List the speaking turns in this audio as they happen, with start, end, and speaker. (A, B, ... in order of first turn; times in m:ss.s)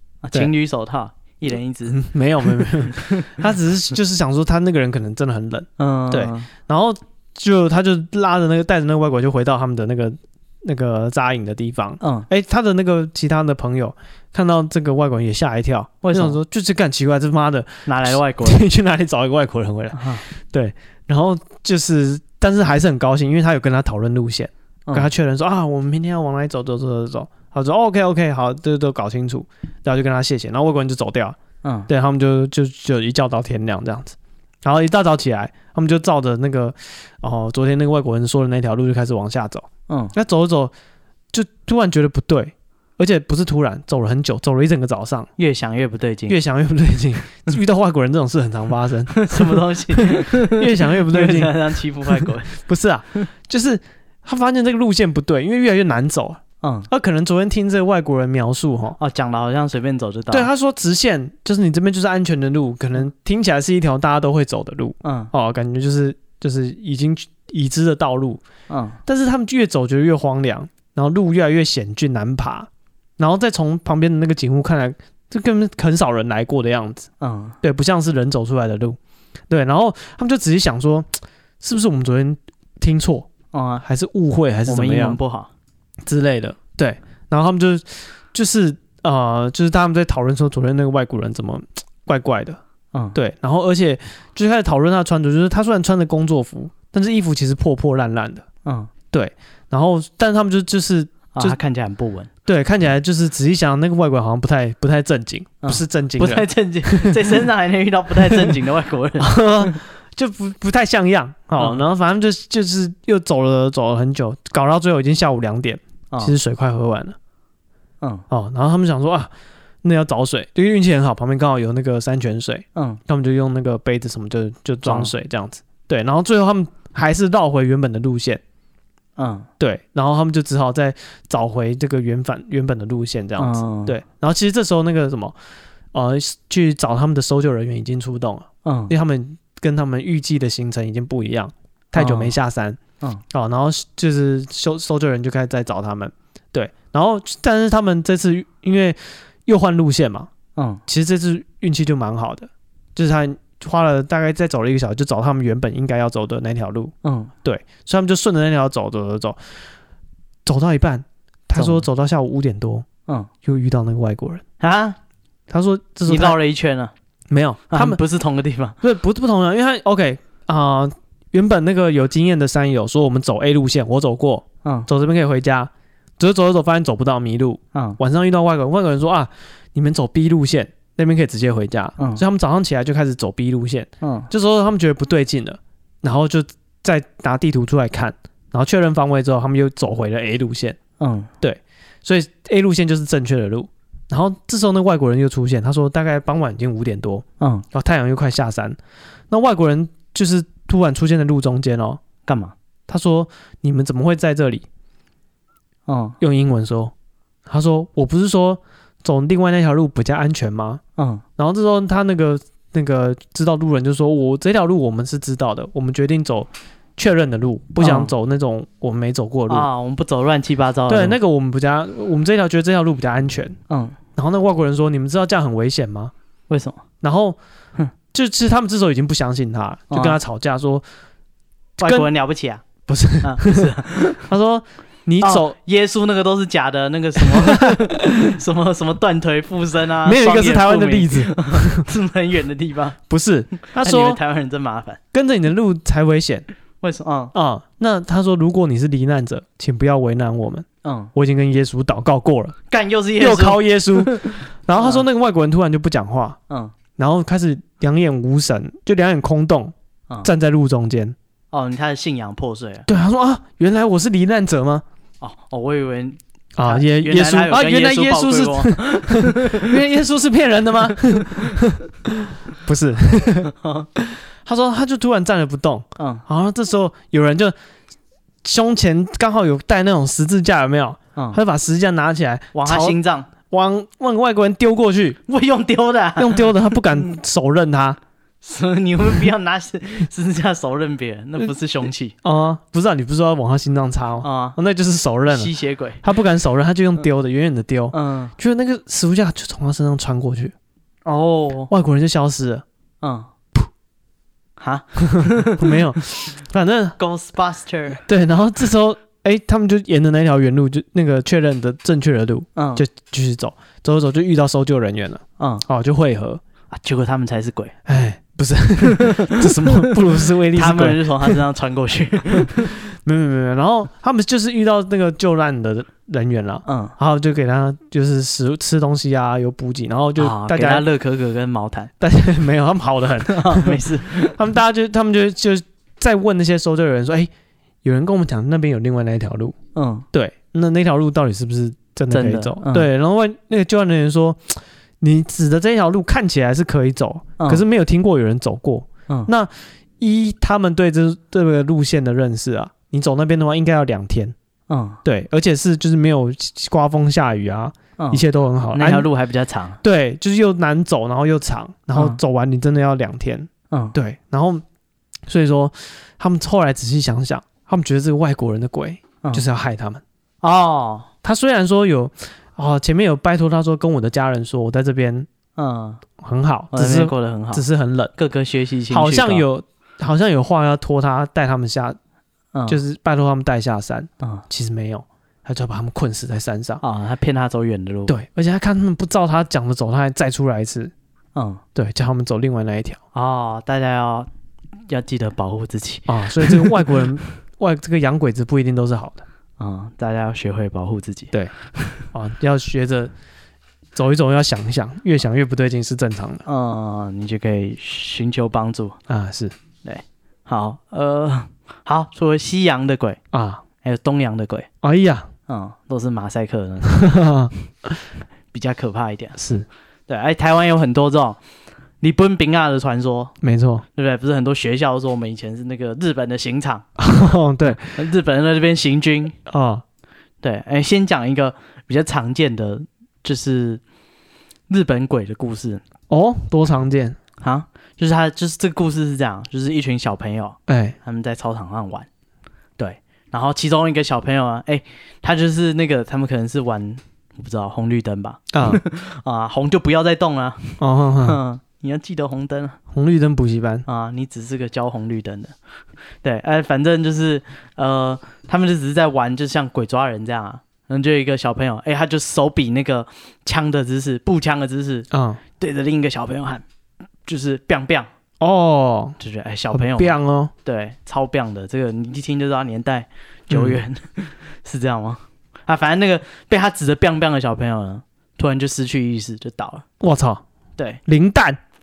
0:00.2-0:03.4 A
0:01.9-0:31.4 B
0:05.8-0:06.5 A
0:12.0-0:12.3 A
0:16.0-0:16.4 A
0:17.9-0:18.6 A
0:19.9-0:20.2 A
0:31.6-0:31.9 A
0:31.9-0:40.7 B
0:39.9-0:40.1 A
0:41.3-0:45.3 B
0:45.4-0:46.4 A
0:46.3-0:59.0 B
0:49.1-0:52.5 A
0:56.6-0:56.9 A
0:59.0-1:00.5 A
1:00.3-1:08.4 B
1:05.0-1:05.3 A
1:08.7-1:09.0 A
1:09.1-1:17.1 B
1:17.2-1:17.6 A
1:17.6-1:19.0 B
1:19.5-1:23.3 B
1:23.5-1:23.8 A
1:23.8-1:25.2 B
1:24.7-1:25.5 A
1:26.0-1:32.6 B
1:33.2-1:38.4 B
1:38.6-1:38.9 A
1:39.1-1:41.6 B
1:41.3-1:42.3 A
1:42.5-1:47.4 B
1:45.6-1:49.8 A
1:49.2-1:57.2 B
1:51.6-1:51.8 A
1:58.3-1:59.3 B
1:59.8-2:08.4 B
2:02.8-2:03.0 A
2:04.8-2:05.1 A
2:09.2-2:09.5 A
2:09.6-2:15.4 B
2:13.4-2:14.0 A
2:15.9-2:22.8 B
2:18.6-2:18.9 A
2:22.0-2:22.4 A
2:23.3-2:30.3 B
2:30.6-2:30.8 A
2:30.9-2:36.9 B
2:37.0-2:37.3 A
2:37.4-2:39.5 B
2:40.4-2:42.9 B
2:41.6-2:41.8 A
2:43.4-2:44.4 B
2:44.6-2:45.0 A
2:45.5-2:46.4 B
2:46.1-2:46.9 A
2:47.3-2:48.0 B
2:47.7-2:48.8 A
2:48.8-3:10.8 B
2:57.7-2:58.0 A
3:02.0-3:02.2 A
3:04.0-3:04.3 A
3:11.0-3:11.3 A
3:11.4-3:18.8 B
3:17.4-3:17.6 A
3:19.3-3:22.0 B
3:22.3-3:22.6 A
3:22.9-3:24.7 B
3:25.9-3:26.2 A
3:26.2-3:26.9 B
3:27.5-3:30.8 B
3:31.0-3:31.2 A
3:31.4-3:39.7 B
3:37.8-3:38.1 A
3:39.5-3:41.2 A
3:40.9-3:43.6 B
3:43.7-3:44.0 A
3:44.2-3:46.1 B
3:46.5-3:46.8 A
3:47.0-3:47.4 B
3:48.1-3:50.8 B
3:49.9-3:50.2 A
3:51.8-3:52.6 A
3:51.8-3:52.1 B
3:52.9-3:55.6 B
3:53.2-3:54.3 A
3:55.2-4:03.0 A
3:57.2-3:58.3 B
4:00.0-4:01.9 B
4:03.1-4:04.2 B
4:03.7-4:05.0 A
4:05.1-4:06.4 B
4:06.8-4:07.3 A
4:07.3-4:12.6 B
4:10.8-4:11.1 A
4:12.7-4:15.1 A
4:13.2-4:16.4 B
4:16.5-4:16.7 A
4:17.0-4:21.2 B
4:21.5-4:22.9 A
4:22.9-4:24.8 B
4:25.2-4:29.8 A
4:26.6-4:37.6 B
4:31.0-4:31.6 A
4:33.5-4:33.9 A
4:36.0-4:36.2 A
4:38.4-4:43.0 B
4:42.5-4:43.3 A
4:43.5-4:45.2 B
4:45.3-4:46.8 A
4:46.2-4:48.0 B
4:48.4-4:52.2 A
4:52.2-5:00.5 B
4:54.2-4:54.6 A
4:55.3-4:56.0 A
4:57.9-4:58.3 A
5:01.0-5:01.7 A
5:01.7-5:02.6 B
5:03.0-5:03.3 A
5:04.6-5:06.0 A
5:05.2-5:07.0 B
5:07.0-5:08.0 A
5:08.0-5:16.4 B
5:12.6-5:12.8 A
5:15.4-5:15.7 A
5:16.7-5:17.8 A
5:17.9-5:21.4 B
5:18.8-5:22.7 A
5:22.4-5:30.8 B
5:26.7-5:27.0 A
5:30.2-5:31.9 A
5:32.0-5:37.3 B
5:33.3-5:34.4 A
5:37.8-5:39.6 B
5:39.8-5:40.0 A
5:40.1-5:54.4 B
5:42.1-5:42.9 A
5:54.7-5:55.0 A
5:55.0-5:59.1 B
5:58.0-5:59.8 A
5:59.8-6:04.6 B
6:03.7-6:04.0 A
6:05.3-6:10.0 B
6:10.4-6:11.1 A
6:11.2-6:15.3 B
6:15.6-6:16.0 A
6:16.2-6:18.1 B
6:16.7-6:17.6 A
6:18.2-6:19.5 A
6:18.9-6:22.0 B
6:22.5-6:22.8 A
6:22.7-6:26.8 B
6:26.8-6:28.1 A
6:28.1-6:30.9 B
6:31.4-6:31.6 A
6:31.8-6:33.0 B
6:33.1-6:34.3 A
6:34.9-6:37.0 A
6:36.1-6:39.2 B
6:39.6-6:42.1 A
6:42.1-6:43.1 B
6:44.0-6:46.4 B
6:46.5-6:49.0 A
6:49.1-6:49.5 B
6:49.8-6:53.2 A
6:53.3-6:53.6 B
6:53.8-6:54.7 A
6:54.8-6:55.3 B
6:55.5-6:57.3 A
6:56.9-6:58.0 B
6:58.5-6:59.4 A
6:59.4-6:59.7 B
7:00.1-7:01.4 A
7:02.0-7:03.3 A
7:03.4-7:03.8 B
7:04.0-7:06.9 A
7:07.0-7:07.9 B
7:07.7-7:09.4 A
7:09.5-7:09.8 B
7:10.4-7:13.8 A
7:14.7-7:15.8 A
7:16.1-7:17.2 B
7:17.4-7:22.1 A
7:20.7-7:21.0 B
7:22.8-7:32.8 A
7:28.5-7:28.8 B
7:30.8-7:31.4 B
7:32.9-7:33.8 B
7:33.9-7:35.6 A
7:36.2-7:45.1 A
7:45.1-7:45.4 B
7:45.6-7:46.6 A
7:47.3-7:48.1 A
7:48.4-7:49.2 B
7:49.2-7:59.8 A
7:49.7-7:50.5 B
7:53.5-7:53.8 B
8:00.0-8:00.4 B
8:01.1-8:01.6 B